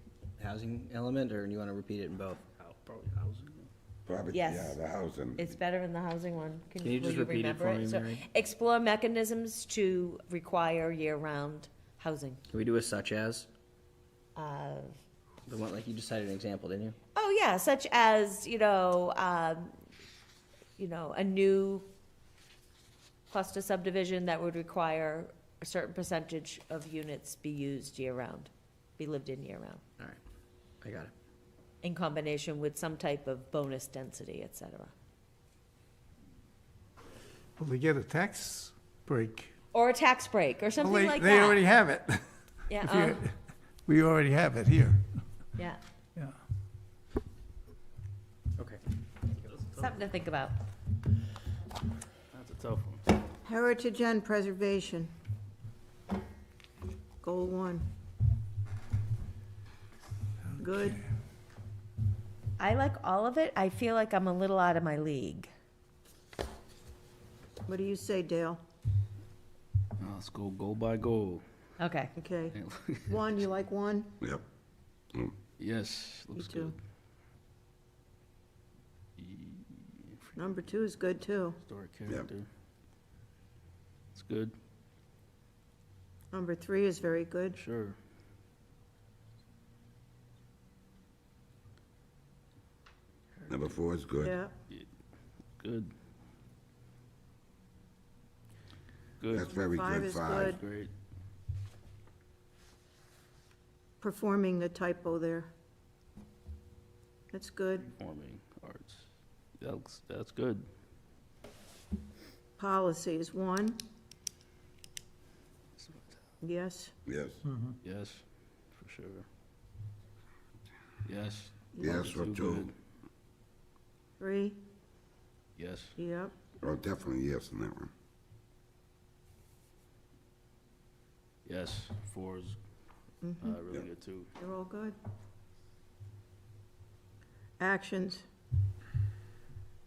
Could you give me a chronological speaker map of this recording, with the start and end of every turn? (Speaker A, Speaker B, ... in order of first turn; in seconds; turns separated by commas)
Speaker A: 0.4-2.4, Speaker B: 2.6-3.7, Speaker C: 4.0-5.5, Speaker D: 4.3-4.8, Speaker D: 5.4-12.4, Speaker A: 6.8-8.2, Speaker A: 12.5-13.5, Speaker D: 14.3-14.9, Speaker A: 15.5-17.0, Speaker D: 17.1-19.8, Speaker D: 20.8-21.9, Speaker D: 23.3-29.8, Speaker A: 30.8-31.1, Speaker D: 31.8-34.9, Speaker E: 37.6-39.5, Speaker D: 39.7-41.6, Speaker E: 40.8-45.0, Speaker D: 42.7-43.2, Speaker A: 48.6-48.8, Speaker D: 49.7-50.6, Speaker B: 52.3-53.0, Speaker F: 53.4-55.1, Speaker F: 57.2-57.9, Speaker F: 60.6-61.0, Speaker D: 62.6-65.5, Speaker F: 67.6-68.6, Speaker B: 70.0-71.4, Speaker D: 71.8-72.1, Speaker F: 72.2-72.5, Speaker B: 72.5-73.3, Speaker F: 73.1-74.1, Speaker B: 75.6-76.8, Speaker F: 76.3-76.7, Speaker B: 79.2-80.4, Speaker F: 80.3-81.6, Speaker B: 81.6-82.5, Speaker B: 84.1-84.5, Speaker F: 86.3-87.6, Speaker B: 87.5-88.0, Speaker C: 93.5-94.4, Speaker F: 94.2-94.5, Speaker B: 95.6-95.9, Speaker B: 99.2-99.5, Speaker C: 99.3-100.6, Speaker F: 99.4-100.6, Speaker B: 100.4-100.9, Speaker F: 104.0-105.5, Speaker F: 107.3-107.9, Speaker B: 108.0-109.0, Speaker B: 109.6-110.7, Speaker F: 112.6-113.8, Speaker B: 115.8-116.0, Speaker F: 116.4-116.9, Speaker C: 117.0-117.4, Speaker B: 117.8-119.3, Speaker B: 121.0-122.7, Speaker F: 121.8-122.0, Speaker C: 121.8-122.7, Speaker F: 124.2-124.6, Speaker B: 125.6-125.9, Speaker F: 126.0-126.3, Speaker C: 126.6-127.9, Speaker B: 131.4-132.6, Speaker F: 133.2-133.6, Speaker B: 133.4-134.3, Speaker F: 134.3-134.9, Speaker F: 137.6-138.2